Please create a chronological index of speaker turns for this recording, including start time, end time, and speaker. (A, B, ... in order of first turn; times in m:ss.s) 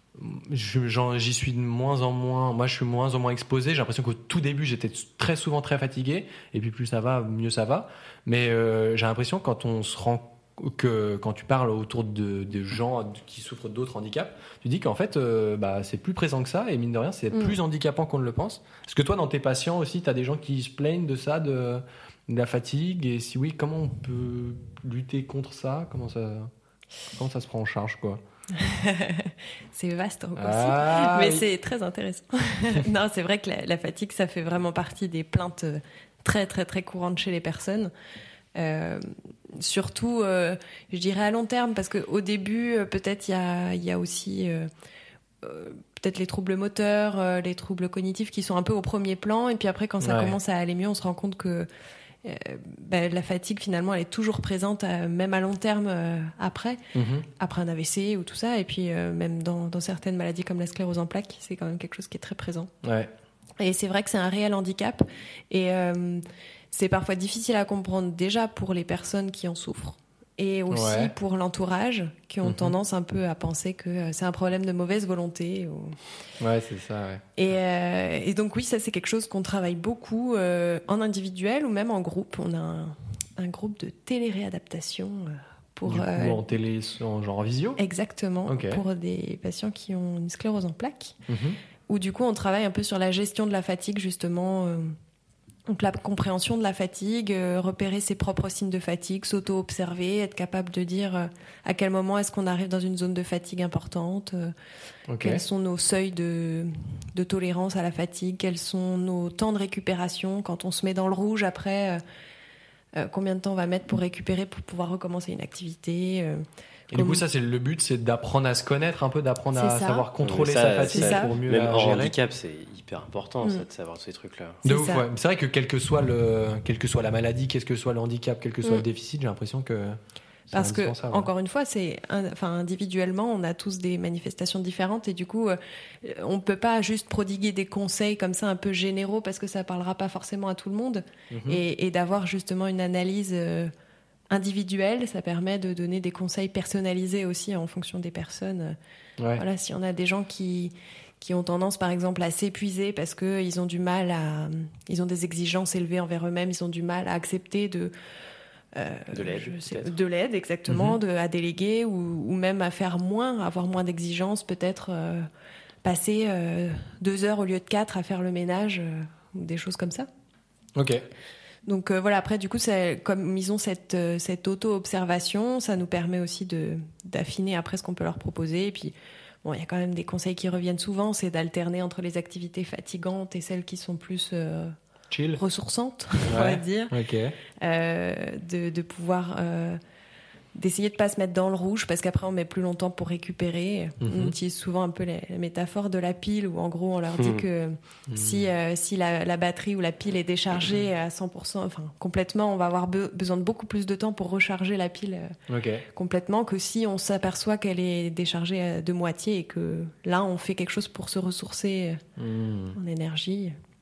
0:00.2-0:26.5 A
0:27.1-0:28.2 A
0:28.5-0:37.9 B
0:30.4-0:31.5 A
0:38.6-0:44.7 B
0:45.4-0:51.7 B
0:50.0-0:50.4 A
0:52.2-0:56.8 B
0:56.9-0:57.3 A
0:57.4-1:02.7 B
1:02.8-1:03.1 A
1:03.6-1:16.0 B
1:10.7-1:11.1 A
1:12.4-1:12.8 A
1:16.4-1:17.2 A
1:17.4-1:26.4 B
1:25.9-1:27.8 A
1:27.8-1:31.2 B
1:28.5-1:28.8 A
1:31.3-1:31.6 A
1:31.9-1:35.0 B
1:35.7-1:44.5 B
1:45.1-1:45.4 A
1:45.2-1:52.0 B
1:53.0-1:57.2 B
1:56.9-2:02.2 A
1:59.5-2:00.1 B
2:00.2-2:04.6 C
2:00.9-2:01.4 B
2:04.6-2:05.1 B
2:04.6-2:11.3 A
2:10.5-2:23.7 B
2:21.3-2:21.6 A
2:24.3-2:28.8 B
2:29.2-2:29.4 A
2:29.4-2:37.9 B
2:38.7-2:45.3 B
2:39.1-2:40.0 C
2:40.7-2:41.0 A
2:45.8-2:50.1 B
2:50.8-2:51.0 A
2:51.7-3:04.8 B
3:05.1-3:05.4 A
3:05.4-3:07.0 B
3:06.3-3:07.4 A
3:07.6-3:09.8 B
3:10.6-3:32.0 B
3:14.0-3:14.4 A
3:17.2-3:17.5 C
3:18.1-3:18.5 A
3:25.5-3:25.8 A
3:32.2-3:32.8 A
3:32.7-3:33.6 B